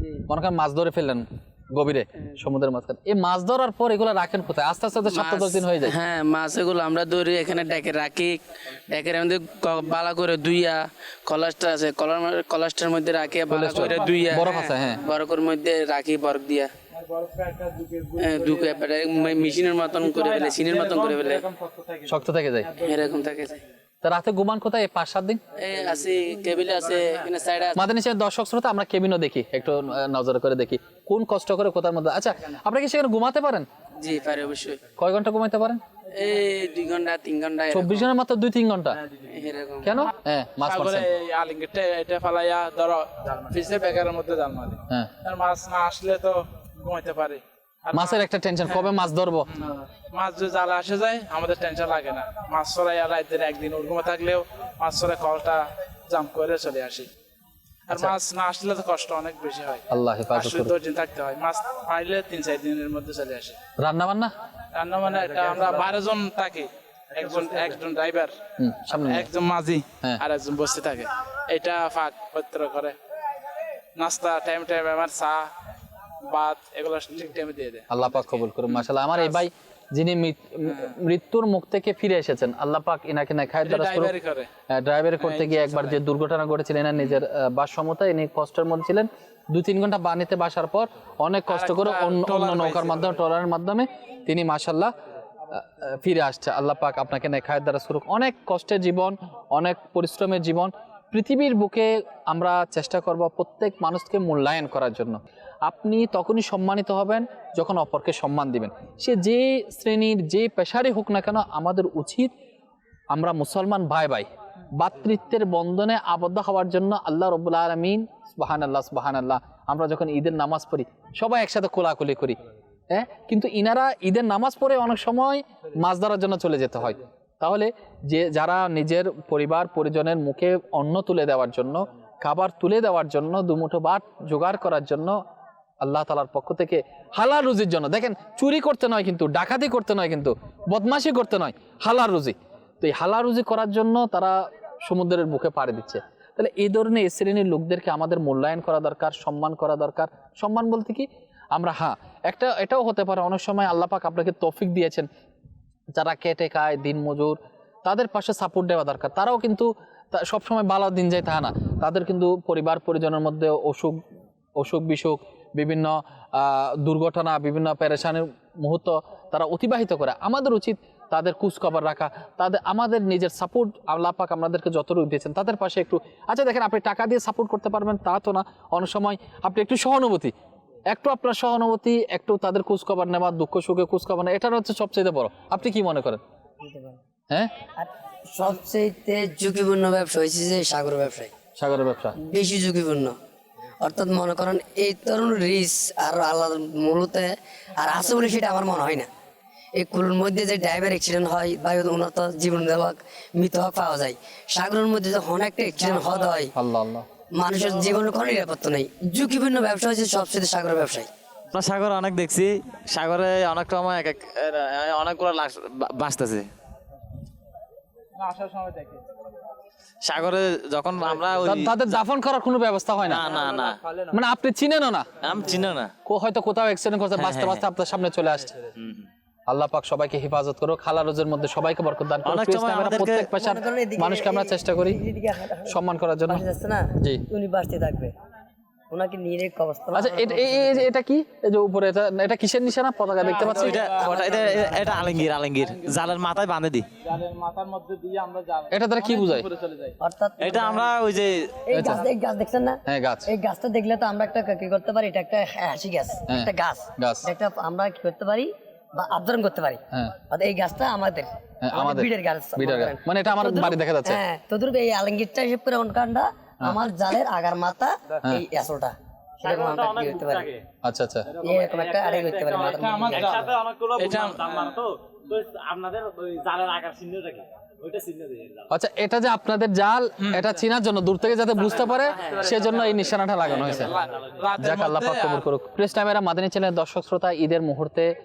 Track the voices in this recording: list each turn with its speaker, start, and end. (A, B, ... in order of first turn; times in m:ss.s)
0:00.3-0:05.9 A
0:05.1-0:16.7 B
0:13.5-0:15.0 A
0:14.0-0:14.7 C
0:17.0-0:18.2 C
0:18.2-0:21.5 B
0:21.4-0:22.0 C
0:22.1-0:22.8 A
0:22.8-0:23.6 B
0:24.0-0:25.4 A
0:25.6-0:27.8 B
0:27.8-0:33.7 A
0:34.0-0:34.8 B
0:35.0-0:35.8 A
0:36.1-0:38.1 B
0:37.7-0:39.0 A
0:39.2-0:39.9 B
0:39.8-0:41.1 A
0:40.6-0:48.2 C
0:47.9-0:49.5 A
0:49.5-0:57.1 C
0:57.9-1:03.6 C
0:59.9-1:00.7 A
1:03.8-1:04.3 A
1:04.7-1:08.4 C
1:08.6-1:09.3 A
1:09.0-1:13.0 C
1:14.0-1:15.5 C
1:16.3-1:18.7 C
1:17.9-1:24.1 A
1:23.6-1:24.5 C
1:24.7-1:34.9 A
1:25.2-1:26.0 C
1:31.5-1:33.1 C
1:35.5-1:52.3 A
1:53.1-2:02.4 A
2:02.9-2:15.2 A
2:15.8-2:35.1 A
2:36.0-2:44.0 A
2:44.6-3:00.3 A
3:00.9-3:06.2 A
3:06.6-3:07.0 D
3:07.8-3:11.3 D
3:11.6-3:12.2 A
3:12.2-3:13.2 D
3:13.8-3:19.1 D
3:19.8-3:26.5 D
3:26.5-3:27.1 A
3:27.3-3:31.1 D
3:31.5-3:36.5 E
3:38.2-3:39.1 C
3:40.0-3:41.8 E
3:41.4-3:43.3 A
3:43.0-3:43.8 E
3:44.1-3:45.2 A
3:45.2-3:45.9 E
3:46.0-3:48.7 A
3:47.2-3:47.6 E
3:48.8-3:49.0 E
3:49.5-3:55.0 A
3:52.2-3:53.3 E
3:53.3-3:55.8 D
3:55.7-3:56.4 A
3:56.3-3:58.1 D
3:58.9-4:00.8 D
3:59.9-4:03.8 A
4:03.2-4:05.9 C
4:03.5-4:05.2 D
4:03.6-4:06.9 E
4:07.0-4:10.0 C
4:08.7-4:09.5 A
4:10.0-4:10.9 D
4:10.4-4:11.5 E
4:11.7-4:30.5 D
4:11.7-4:12.0 A
4:12.9-4:13.3 A
4:16.3-4:17.3 A
4:21.6-4:24.2 A
4:29.4-4:30.5 E
4:30.8-4:31.3 A
4:31.3-4:38.6 E
4:31.4-4:33.4 D
4:32.8-4:34.8 C
4:38.7-4:44.0 A
4:41.9-4:43.1 E
4:43.4-4:45.5 C
4:44.6-4:48.1 A